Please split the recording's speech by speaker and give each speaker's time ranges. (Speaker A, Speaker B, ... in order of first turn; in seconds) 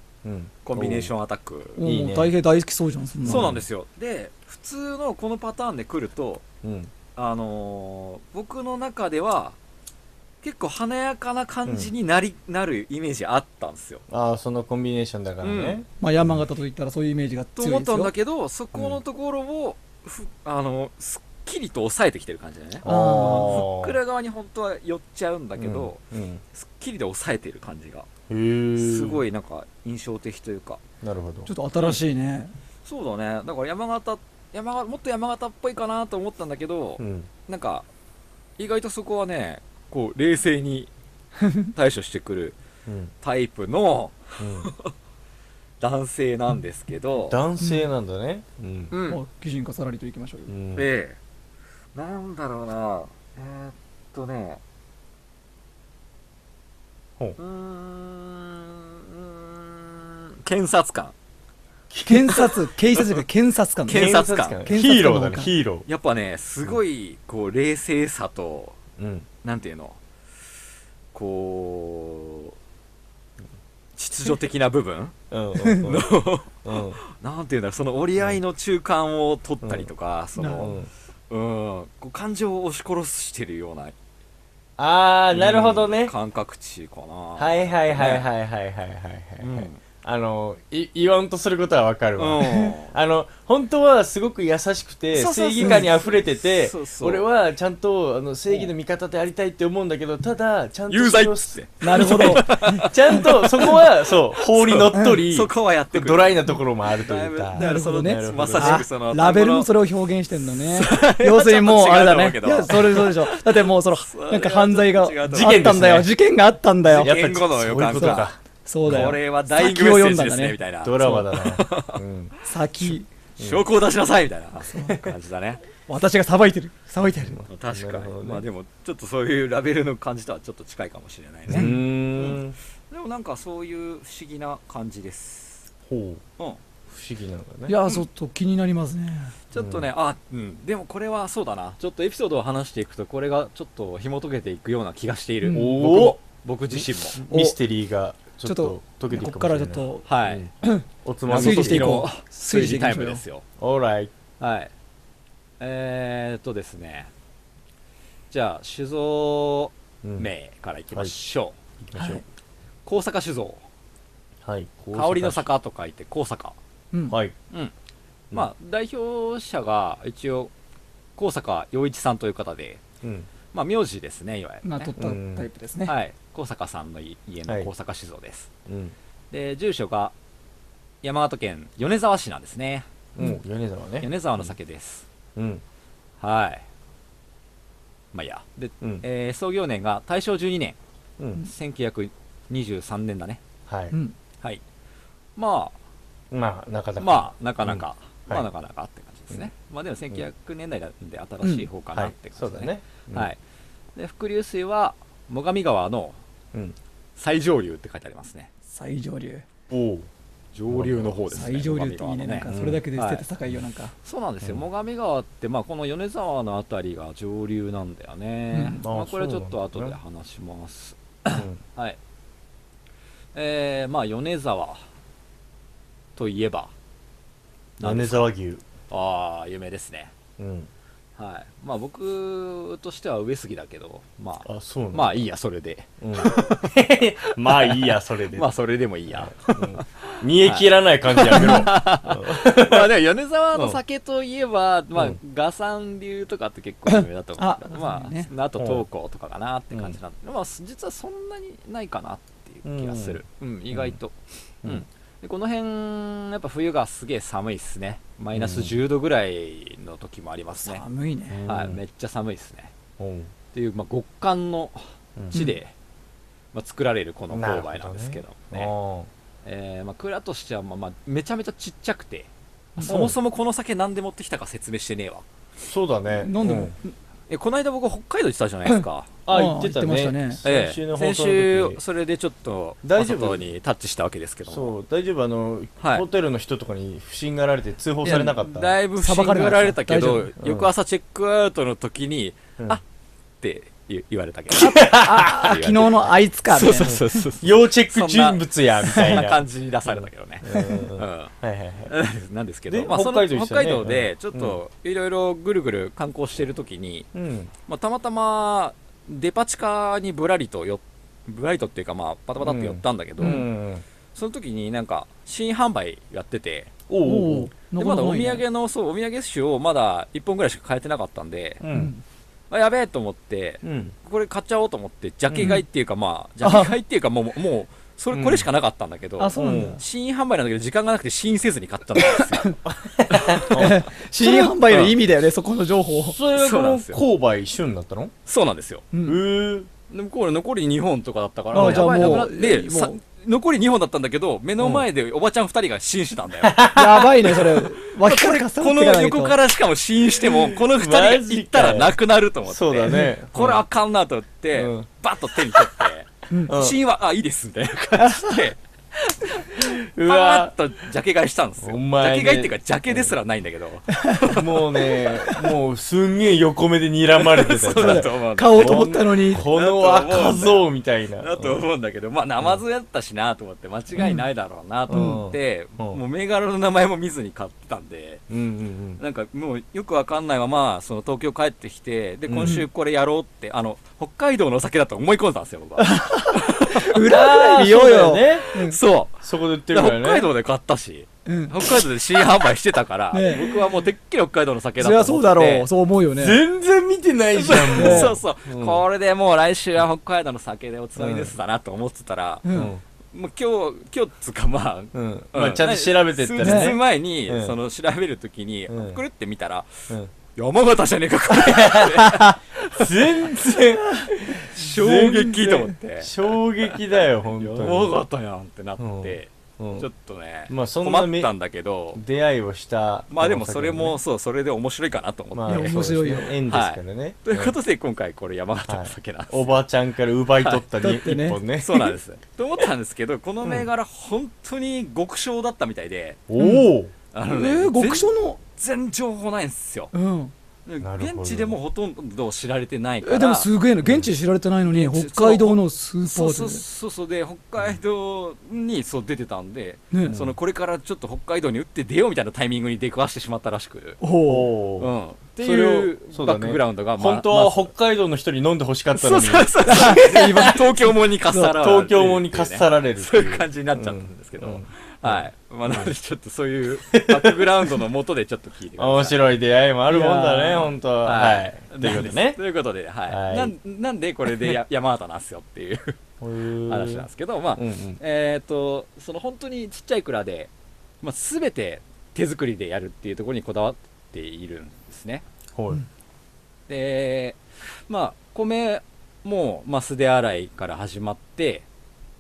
Speaker A: 0.2-1.1, 1.8-2.3, 3.2-3.6, 6.6-6.9, 11.7-11.9, 14.1-15.9, 22.8-24.0, 25.6-26.4, 28.3-29.2, 31.0-31.5, 37.0-37.3, 44.4-44.7, 47.3-48.9, 50.5-50.9, 61.9-62.5, 63.9-65.9, 69.0-69.3, 75.3-76.1, 76.6-77.0, 79.6-79.9, 80.6-80.9, 84.8-86.1, 87.4-108.9, 115.3-116.1, 116.9-119.2, 120.8-122.3, 123.4-123.6, 127.0-128.4, 131.5-132.6, 135.9-136.2, 136.9-137.8, 139.6-139.9, 145.5-146.2, 146.7-150.5, 151.0-152.1, 153.6-154.1, 160.0-160.3, 161.8-162.2, 164.4-165.5, 167.1-167.3, 173.0-173.3, 175.0-175.5, 178.7-178.9, 183.2-184.5, 185.4-185.6, 191.2-191.4, 193.7-193.9, 196.3-198.5, 201.9-203.3, 209.7-210.1, 210.7-211.2, 212.5-212.8, 218.8-220.0, 221.3-221.6, 227.8-228.6, 230.4-230.7, 234.4-235.3, 236.0-238.5, 239.1-242.9, 243.5-243.8, 248.6-248.8, 249.7-250.0, 252.7-254.0, 258.3-258.8, 261.3-261.8, 263.0-263.3, 265.2-265.4, 267.3-269.1, 272.8-273.2, 275.7-276.8, 279.3-281.8, 282.8-283.4, 284.5-288.7, 290.4-290.7, 294.5-295.6, 297.4-301.9, 302.7-304.6, 307.1-307.5, 312.4-313.8, 316.9-317.5, 321.6-321.9, 323.6-323.9, 325.3-325.6, 328.1-328.5, 329.4-329.8, 332.6-333.8, 336.0-338.1, 339.1-339.7, 341.5-342.2, 344.6-344.9, 346.4-347.3, 350.3-353.6, 354.5-355.7, 356.5-356.8, 359.6-360.5, 361.6-363.1, 364.3-371.6, 374.9-376.0, 378.3-379.0, 382.3-382.6, 387.0-388.5, 389.2-390.3, 396.1-398.8, 401.0-401.3, 402.5-402.8, 404.9-407.6, 408.7-409.0, 411.4-418.0, 418.8-419.9, 420.5-421.3, 421.9-424.0, 425.3-427.6, 428.7-431.9, 433.4-433.7, 436.3-436.9, 440.8-441.6, 443.8-444.1, 450.1-450.4, 454.3-460.2, 461.5-465.9, 466.9-467.9, 468.8-472.4, 473.1-473.5, 476.2-478.0, 485.5-485.8
Speaker B: 0.6-1.8, 3.2-6.4, 7.2-9.6, 10.4-14.0, 15.4-15.8, 17.6-26.0, 26.5-28.1, 28.8-30.8, 32.9-37.9, 38.6-40.9, 41.8-42.6, 43.2-44.9, 45.8-47.4, 48.9-49.2, 50.8-51.2, 52.0-54.6, 57.4-61.1, 63.9-64.6, 65.9-68.8, 69.4-70.0, 71.1-72.5, 74.0-75.1, 75.8-80.8, 81.3-84.0, 85.3-88.3, 89.4-89.8, 92.2-92.9, 95.1-97.2, 100.9-109.7, 110.7-115.7, 116.9-118.3, 118.9-122.0, 122.8-125.6, 127.5-135.7, 139.5-147.2, 150.1-150.5, 151.3-153.4, 154.4-154.7, 155.6-157.1, 158.3-161.6, 162.8-163.6, 164.9-166.6, 168.3-170.5, 171.2-172.8, 173.5-174.9, 175.8-178.5, 179.3-180.1, 181.0-182.9, 184.0-185.1, 186.2-186.6, 188.1-190.8, 191.4-193.4, 195.4-195.8, 197.0-203.4, 204.0-206.2, 207.2-208.5, 210.5-213.2, 214.0-222.0, 223.3-224.8, 226.2-226.7, 227.8-228.3, 228.9-230.1, 231.2-236.8, 237.4-260.8, 261.5-262.7, 263.5-265.7, 266.5-268.7, 269.4-275.2, 277.3-279.1, 280.4-284.7, 288.4-292.8, 293.4-301.3, 301.9-307.1, 307.7-313.5, 314.1-316.7, 317.8-321.6, 322.5-332.6, 333.3-333.7, 334.2-334.9, 336.3-337.0, 338.3-338.9, 339.9-346.7, 348.0-364.6, 367.2-378.2, 379.0-387.0, 388.5-395.7, 397.4-402.5, 403.1-409.7, 410.4-412.9, 414.5-422.0, 423.1-425.9, 426.5-429.6, 431.6-436.2, 437.1-439.9, 440.7-443.5, 444.7-454.0, 454.8-457.7, 458.9-469.2, 471.0-476.0, 476.7-480.5, 481.0-485.2, 486.7-491.6
Speaker C: 1.8-3.5, 16.0-18.1, 22.9-23.6, 31.5-32.5, 49.1-50.5, 62.0-65.5, 80.4-80.7, 95.6-95.9, 101.8-103.6, 104.9-105.2, 107.6-117.1, 117.9-120.6, 122.5-123.1, 124.7-125.0, 125.9-127.4, 131.5-131.8, 137.7-139.3, 145.4-145.8, 147.3-147.6, 148.4-150.1, 150.6-153.2, 162.0-162.2, 166.9-167.2, 174.6-175.9, 208.7-209.4, 211.3-213.9, 218.5-218.8, 246.9-248.3, 260.6-261.4, 265.3-265.6, 276.2-276.9, 278.7-280.4, 288.0-288.4, 289.0-290.3, 294.5-297.2, 300.5-300.8, 317.0-318.4, 321.7-322.0, 326.4-326.7, 329.2-329.8, 332.1-332.6, 333.4-336.2, 338.9-339.2, 341.5-343.0, 346.7-349.4, 358.1-358.3, 363.9-364.2, 367.7-369.4, 374.0-374.2, 374.9-375.2, 385.8-388.8, 391.3-391.6, 393.1-393.5, 394.8-396.4, 397.8-398.1, 402.4-402.7, 406.4-406.7, 425.5-426.4, 430.8-431.4, 436.4-436.7, 437.3-438.4, 439.9-440.3, 443.0-446.6, 454.0-454.5, 459.6-461.5, 469.9-470.7